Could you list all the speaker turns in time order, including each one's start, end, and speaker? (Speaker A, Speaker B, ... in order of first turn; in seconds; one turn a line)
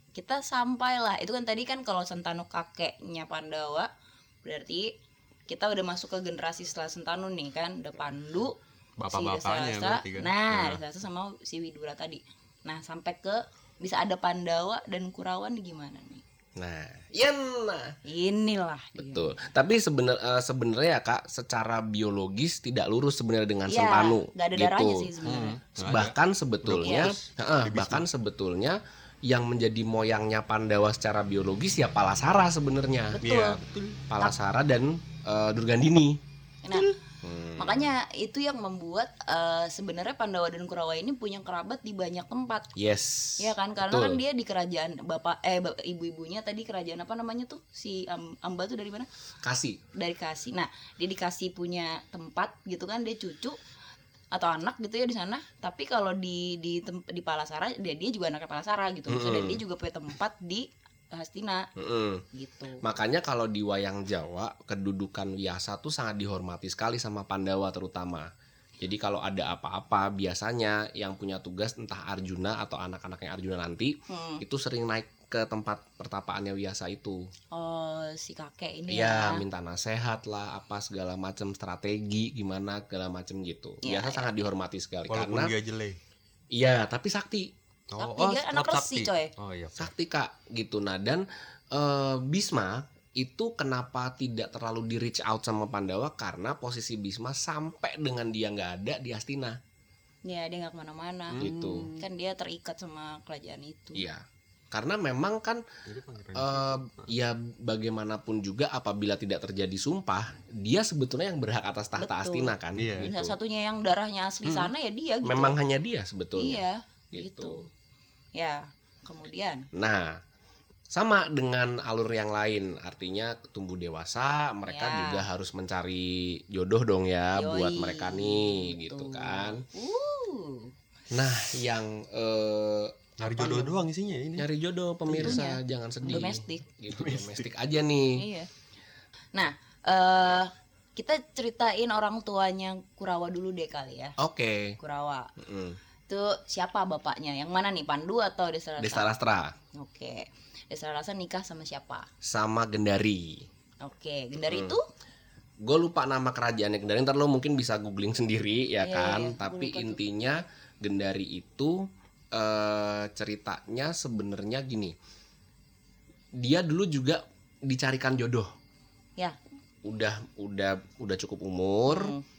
Speaker A: 0.1-3.9
Speaker A: 4.4-4.9
Speaker A: 5.5-8.6
Speaker B: 9.0-10.7
Speaker A: 9.1-16.2
Speaker C: 16.6-18.0
Speaker A: 18.0-19.4
Speaker C: 19.0-25.1
Speaker A: 23.6-25.6
Speaker B: 25.2-28.1
Speaker C: 25.8-33.2
Speaker A: 26.8-27.1
Speaker A: 33.1-33.6
Speaker B: 33.2-34.0
Speaker C: 34.1-36.2
Speaker A: 36.6-36.9
Speaker C: 37.2-37.9
Speaker A: 37.6-42.7
Speaker C: 42.8-44.2
Speaker A: 43.4-49.1
Speaker C: 49.4-49.8
Speaker A: 49.9-53.6
Speaker A: 54.3-61.6
Speaker C: 59.1-59.6
Speaker C: 61.8-62.2
Speaker A: 62.3-62.8
Speaker C: 62.8-68.3
Speaker C: 68.8-77.3
Speaker A: 74.1-74.4
Speaker A: 77.5-79.4
Speaker C: 78.9-85.5
Speaker A: 83.8-84.3
Speaker B: 85.1-86.0
Speaker C: 86.5-87.5
Speaker B: 87.9-89.9
Speaker A: 88.0-89.3
Speaker C: 89.8-99.6
Speaker A: 100.2-101.4
Speaker B: 101.3-102.0
Speaker C: 101.4-101.9
Speaker A: 101.9-104.0
Speaker C: 103.9-105.6
Speaker B: 105.8-107.1
Speaker C: 106.3-113.3
Speaker A: 112.0-115.6
Speaker B: 112.8-113.1
Speaker B: 114.5-114.7
Speaker C: 115.2-117.7
Speaker A: 116.3-117.7
Speaker A: 118.3-119.7
Speaker C: 119.7-120.2
Speaker C: 120.9-129.7
Speaker A: 124.7-125.3
Speaker A: 127.3-130.7
Speaker C: 131.1-133.8
Speaker B: 133.2-134.5
Speaker C: 134.4-138.2
Speaker B: 135.1-135.4
Speaker A: 135.2-136.6
Speaker B: 136.9-137.5
Speaker A: 138.2-138.5
Speaker A: 139.3-144.2
Speaker C: 144.2-144.8
Speaker A: 144.8-145.3
Speaker C: 145.4-145.8
Speaker A: 146.1-149.1
Speaker C: 148.8-149.5
Speaker A: 149.7-152.1
Speaker C: 152.2-153.4
Speaker A: 153.8-154.8
Speaker C: 154.4-154.8
Speaker C: 155.6-164.9
Speaker A: 158.8-160.0
Speaker C: 166.3-168.5
Speaker C: 169.8-172.2
Speaker A: 171.9-172.2